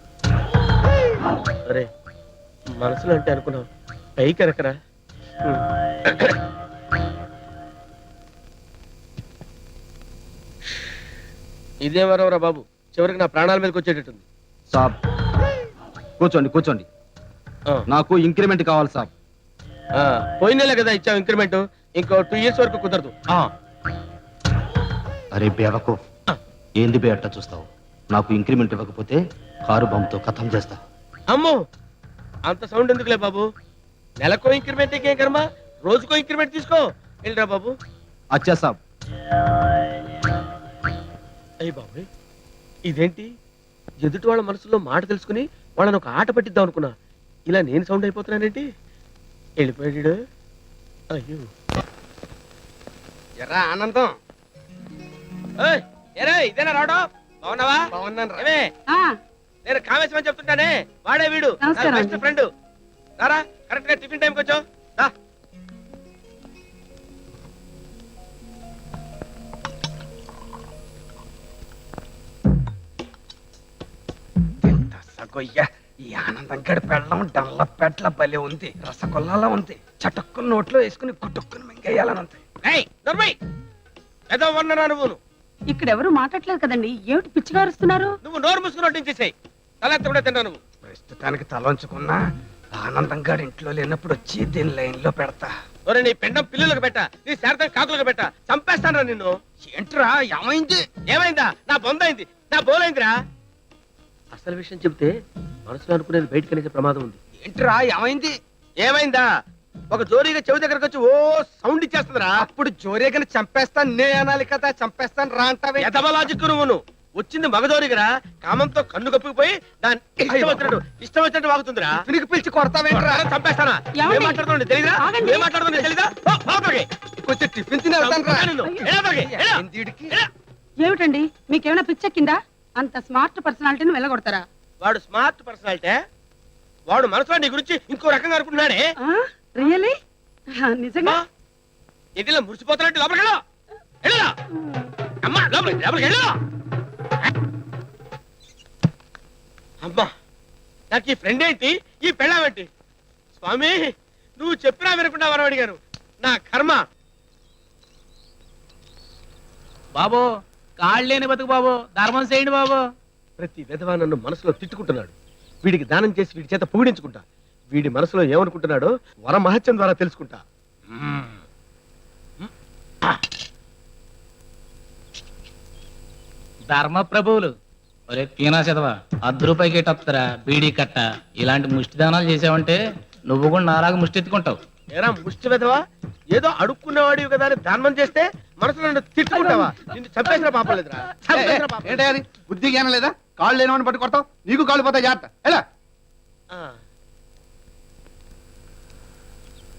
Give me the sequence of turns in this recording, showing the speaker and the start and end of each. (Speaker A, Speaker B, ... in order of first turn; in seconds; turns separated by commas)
Speaker A: 2.8-4.7, Speaker A: 5.4-6.3, Speaker A: 11.8-14.2, Speaker B: 16.2-16.7, Speaker B: 18.0-19.0, Speaker A: 20.0-23.5, Speaker B: 25.4-25.9, Speaker B: 26.8-27.6, Speaker B: 28.1-29.1, Speaker B: 29.9-30.6, Speaker A: 31.3-31.6, Speaker A: 32.5-33.5, Speaker A: 34.2-37.7, Speaker B: 38.4-38.7, Speaker A: 41.6-42.1, Speaker A: 42.9-43.3, Speaker A: 44.0-46.9, Speaker A: 47.5-48.7, Speaker A: 49.6-50.2, Speaker A: 51.1-51.5, Speaker C: 53.4-54.1, Speaker D: 53.5-54.1, Speaker A: 55.6-58.7, Speaker C: 57.9-58.5, Speaker E: 58.9-59.1, Speaker A: 59.6-62.5, Speaker E: 61.6-62.2, Speaker A: 63.2-65.1, Speaker D: 74.6-82.4, Speaker A: 82.7-83.4, Speaker A: 84.3-85.2, Speaker E: 85.7-88.1, Speaker A: 88.2-90.6, Speaker D: 90.8-92.2, Speaker D: 92.7-95.5, Speaker A: 95.9-99.4, Speaker D: 99.6-100.8, Speaker A: 101.1-103.1, Speaker A: 104.3-105.1, Speaker A: 105.7-107.2, Speaker D: 107.4-108.3, Speaker A: 108.8-109.3, Speaker A: 109.9-112.3, Speaker C: 112.4-116.0, Speaker A: 115.8-122.0, Speaker C: 120.3-120.7, Speaker C: 122.0-123.3, Speaker A: 122.9-126.9, Speaker E: 124.0-124.4, Speaker E: 125.0-125.5, Speaker C: 127.2-128.5, Speaker A: 128.0-130.3, Speaker D: 129.2-130.0, Speaker C: 129.6-130.1, Speaker E: 130.8-134.4, Speaker A: 134.8-136.0, Speaker A: 136.9-138.9, Speaker E: 139.0-139.9, Speaker E: 140.6-141.2, Speaker A: 142.2-143.4, Speaker A: 144.0-144.3, Speaker A: 145.2-146.4, Speaker A: 149.8-150.1, Speaker A: 150.9-152.7, Speaker A: 153.4-156.8, Speaker F: 159.9-160.3, Speaker F: 160.8-162.8, Speaker A: 163.4-170.4, Speaker F: 176.7-177.5, Speaker F: 178.1-182.8, Speaker F: 183.3-184.6, Speaker A: 184.9-185.8, Speaker A: 186.3-192.1, Speaker G: 191.3-195.6